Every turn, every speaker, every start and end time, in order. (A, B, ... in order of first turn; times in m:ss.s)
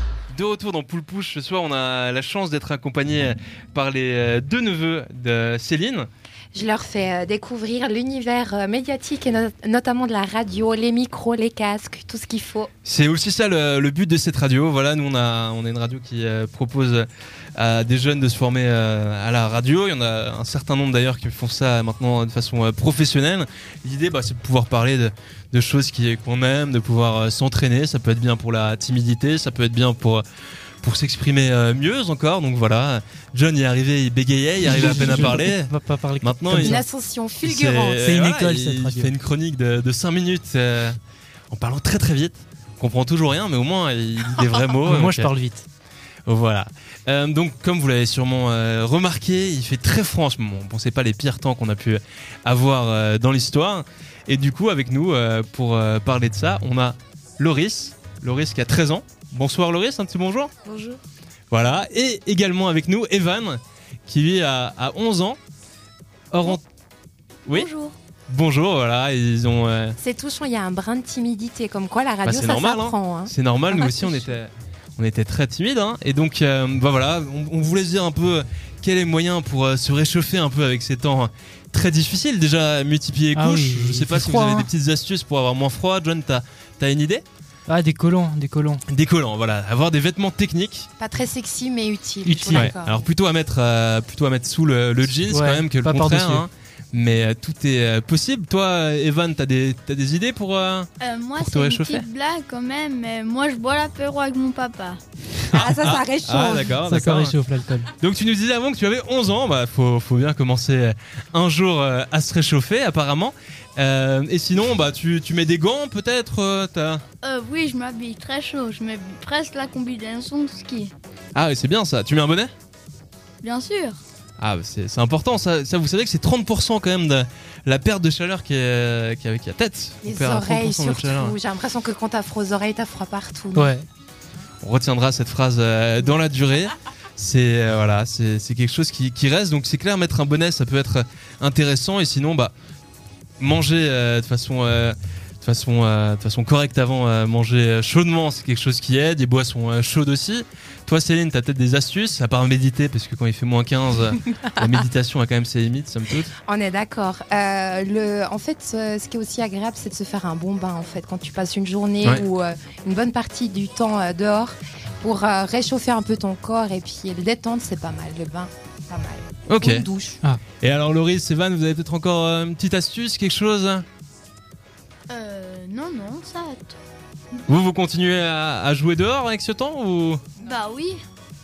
0:00.3-0:06.1 A
0:06.5-0:12.7 B
0:12.8-0:30.2 A
0:30.8-0:35.7 A
0:34.6-0:36.8 C
0:34.9-0:35.2 B
0:36.2-0:36.8 A
0:36.6-0:38.1 B
0:37.4-0:41.0 A
0:38.0-0:39.1 C
0:41.5-0:45.3 A
0:44.8-0:45.7 C
0:46.3-1:00.5 A
1:00.6-1:01.0 B
1:01.5-1:05.4 A
1:06.3-1:06.6 A
1:07.5-1:08.0 D
1:08.3-1:10.0 A
1:10.0-1:14.3 B
1:12.2-1:27.2 A
1:23.3-1:24.7 C
1:27.7-1:28.8 C
1:28.9-1:30.9 A
1:31.0-1:33.1 B
1:32.2-1:32.7 C
1:32.5-1:42.1 A
1:35.2-1:36.5 C
1:41.0-1:45.0 D
1:45.5-1:47.4 A
1:45.6-1:46.8 B
1:46.8-1:47.9 C
1:48.0-1:57.0 A
1:57.2-2:00.9 D
2:01.4-2:02.5 A
2:03.4-2:04.0 D
2:04.4-2:11.4 A
2:10.0-2:13.7 B
2:13.6-2:13.9 C
2:14.6-2:22.5 A
2:23.4-2:36.3 A
2:36.4-2:50.2 B
2:49.5-2:49.8 A
2:50.6-2:53.8 A
2:55.1-2:56.8 D
2:57.5-3:00.2 A
3:00.4-3:01.0 D